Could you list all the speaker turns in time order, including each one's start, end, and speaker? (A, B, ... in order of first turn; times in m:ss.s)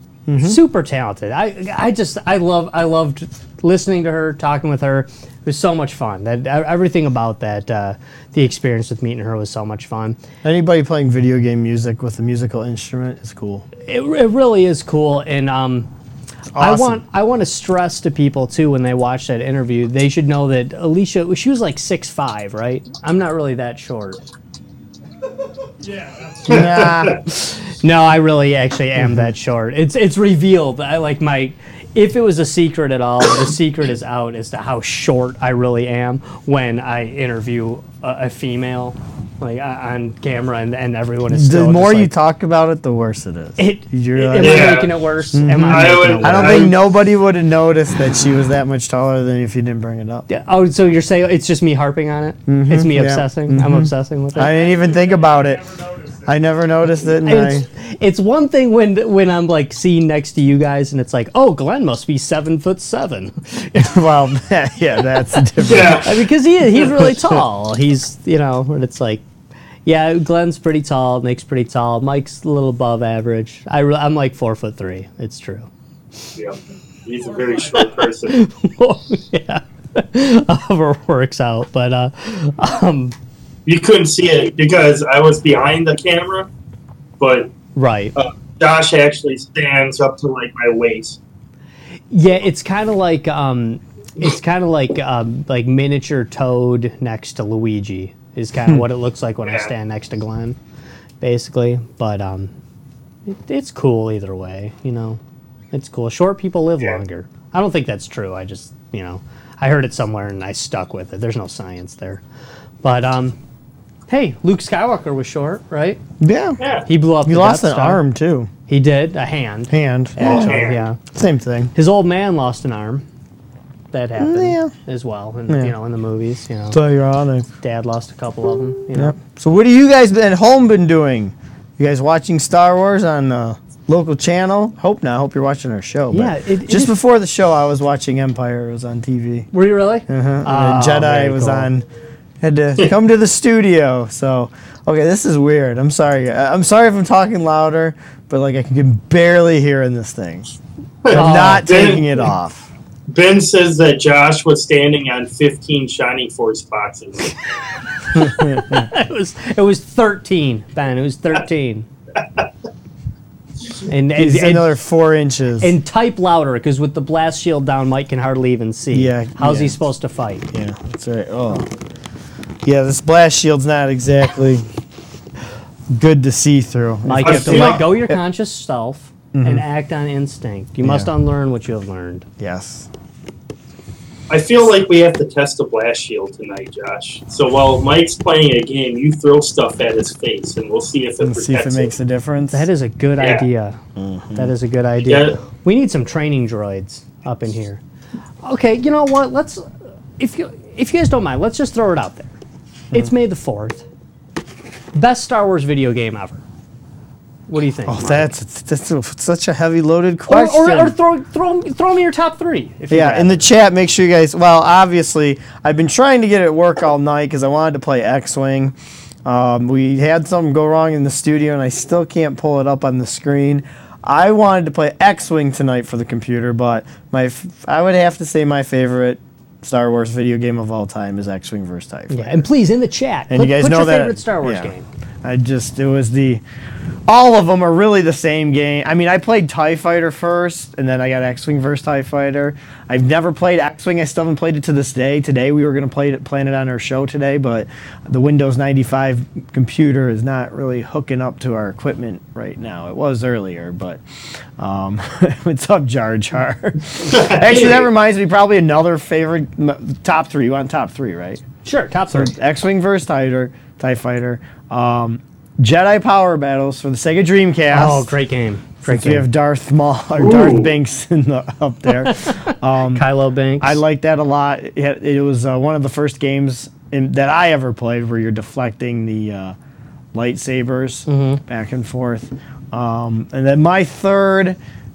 0:00.3-0:00.6 A
0:00.4-0:10.2 B
0:10.4-0:13.7 A
0:13.8-0:15.9 B
0:16.5-0:17.0 A
0:16.6-0:24.2 B
0:25.8-0:26.8 C
0:26.5-0:27.2 A
0:26.5-0:27.2 D
0:27.3-0:42.1 B
0:29.0-0:29.3 A
0:41.3-0:50.3 A
0:43.6-0:46.8 B
0:44.4-0:44.9 D
0:45.7-0:46.8 D
0:50.3-0:54.6 B
0:52.5-0:55.7 A
0:54.5-0:56.3 C
0:56.2-0:57.7 A
0:57.1-1:04.0 B
1:03.7-1:07.4 A
1:05.6-1:06.2 D
1:05.6-1:09.2 B
1:09.8-1:15.7 B
1:16.4-1:18.4 D
1:18.3-1:23.2 B
1:23.7-1:26.5 D
1:27.2-1:27.5 D
1:27.8-1:28.2 B
1:28.2-1:31.2 D
1:32.1-1:40.6 B
1:39.4-1:39.7 D
1:41.2-1:42.5 B
1:43.3-1:45.2 B
1:45.7-1:52.2 B
1:52.8-1:53.4 B
1:54.1-1:56.0 B
1:56.2-1:56.6 A
1:56.6-1:56.9 D
1:56.9-1:58.0 B
1:57.2-1:58.5 A
1:58.7-2:01.0 B
1:59.7-2:01.7 A
2:00.2-2:00.8 D
2:01.7-2:03.0 B
2:03.9-2:06.8 B
2:04.2-2:04.7 A
2:05.5-2:05.8 A
2:06.7-2:07.5 A
2:07.6-2:09.2 B
2:08.9-2:19.5 A
2:16.1-2:17.0 B
2:19.5-2:21.7 B
2:20.1-2:21.9 A
2:22.4-2:30.6 A
2:31.0-2:32.3 D
2:31.1-2:31.9 B
2:31.1-2:32.7 A
2:33.1-2:37.4 D
2:38.1-2:41.9 B
2:38.1-2:38.9 A
2:42.2-2:42.5 D
2:43.9-2:44.8 B
2:44.2-2:45.8 A
2:45.6-2:50.5 B
2:48.9-2:49.8 A
2:50.5-2:51.7 A
2:52.6-2:54.7 A
2:55.9-2:58.2 A
2:57.0-3:02.3 B
2:57.2-2:57.9 D
2:59.3-2:59.6 A
3:00.8-3:01.1 A
3:02.4-3:02.9 A
3:04.3-3:11.9 D
3:11.2-3:12.7 A
3:12.5-3:13.8 B
3:13.2-3:13.5 D
3:14.0-3:14.5 A
3:14.4-3:17.8 B
3:15.0-3:15.4 D
3:18.4-3:22.3 B
3:22.9-3:23.8 B
3:24.9-3:26.4 B
3:27.5-3:28.3 B
3:27.9-3:31.0 A
3:30.3-3:33.5 B
3:32.9-3:52.5 A
3:52.1-3:54.9 B
3:53.3-3:56.4 A
3:57.1-4:14.0 A
4:14.6-4:21.4 A
4:17.0-4:17.9 D
4:21.6-4:22.3 B
4:22.1-4:28.1 A
4:27.7-4:29.3 B
4:28.8-4:33.1 A
4:30.2-4:30.7 D
4:32.0-4:33.8 B
4:33.6-4:39.6 A
4:40.1-4:44.6 A
4:41.1-4:41.4 B